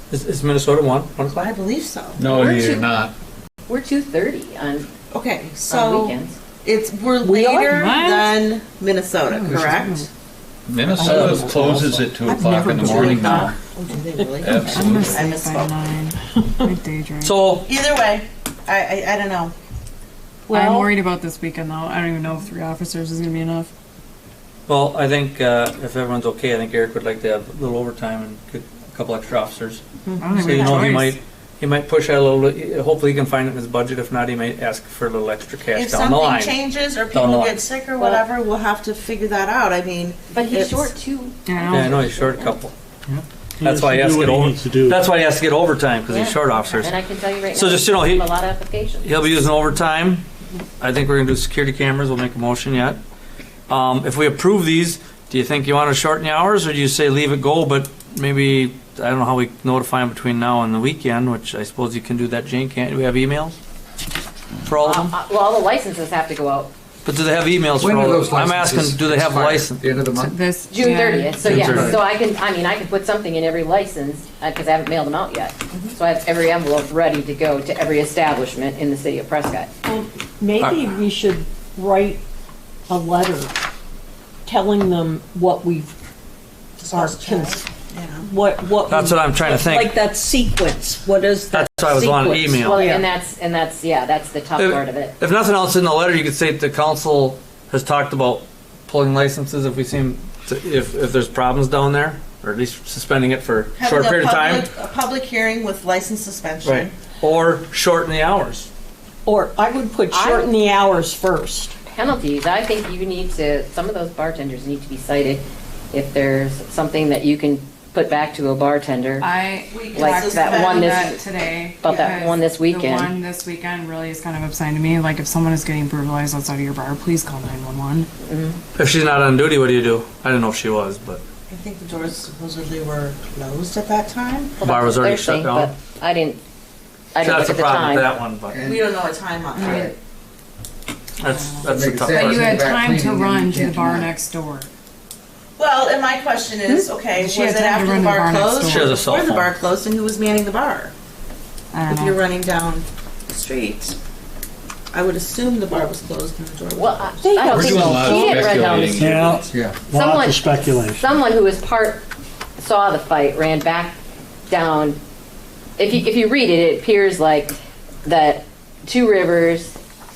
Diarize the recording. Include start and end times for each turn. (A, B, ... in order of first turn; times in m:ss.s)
0:00.1-0:01.4 A
0:01.2-0:02.3 B
0:02.2-0:03.1 C
0:02.3-0:02.8 D
0:03.7-0:04.9 E
0:05.1-0:10.1 B
0:05.7-0:06.4 E
0:07.2-0:07.7 F
0:07.7-0:08.3 D
0:09.2-0:10.1 D
0:10.6-0:13.6 C
0:11.0-0:13.4 F
0:12.2-0:15.8 B
0:14.4-0:15.2 C
0:14.5-0:17.4 D
0:17.2-0:17.6 A
0:17.5-0:19.5 B
0:20.5-0:20.9 F
0:20.5-0:23.7 D
0:24.7-0:36.6 A
0:30.1-0:30.9 B
0:30.2-0:31.2 D
0:35.7-0:40.9 B
0:37.1-0:37.6 A
0:38.0-0:38.2 E
0:40.3-0:42.6 E
0:41.5-0:41.9 D
0:41.7-0:42.7 A
0:43.1-0:45.0 G
0:43.6-0:46.9 A
0:46.1-0:49.2 E
0:47.5-0:48.3 A
0:49.0-0:50.2 A
0:50.8-0:53.0 A
0:53.7-1:03.5 A
1:04.7-1:05.1 A
1:04.8-1:06.7 E
1:07.0-1:09.8 A
1:07.8-1:10.4 H
1:10.1-1:11.9 D
1:10.7-1:19.7 E
1:11.4-1:12.0 A
1:11.5-1:12.0 H
1:19.8-1:22.2 F
1:22.9-1:23.5 F
1:24.4-1:25.9 F
1:26.8-1:27.6 F
1:26.8-1:28.2 B
1:28.2-1:33.1 F
1:28.9-1:30.0 A
1:31.5-1:32.8 A
1:32.6-1:35.1 E
1:34.6-1:44.7 A
1:43.8-1:46.9 B
1:46.6-1:48.7 A
1:49.2-1:51.8 F
1:50.1-1:50.5 E
1:51.8-1:59.3 E
1:59.2-2:08.1 D
1:59.7-2:01.2 B
1:59.9-2:01.2 E
2:01.8-2:03.1 E
2:01.8-2:02.2 B
2:08.2-2:08.6 E
2:08.8-2:11.2 A
2:11.5-2:14.5 B
2:14.6-2:16.4 E
2:14.6-2:15.7 A
2:17.1-2:18.1 E
2:17.2-2:18.6 A
2:18.5-2:18.9 H
2:18.6-2:19.9 B
2:19.5-2:19.9 D
2:19.6-2:19.9 H
2:21.2-2:22.5 A
2:21.2-2:24.7 D
2:21.7-2:24.1 H
2:25.6-2:30.9 B
2:27.1-2:29.0 D
2:28.6-2:29.5 A
2:31.7-2:32.2 D
2:31.8-2:34.0 B
2:34.9-2:37.4 B
2:36.8-2:39.1 E
2:37.2-2:38.9 F
2:37.4-2:39.2 C
2:39.0-2:41.2 G
2:39.4-2:39.8 H
2:39.9-2:42.1 E
2:42.6-2:44.0 E
2:44.5-2:45.0 E
2:45.8-2:49.8 E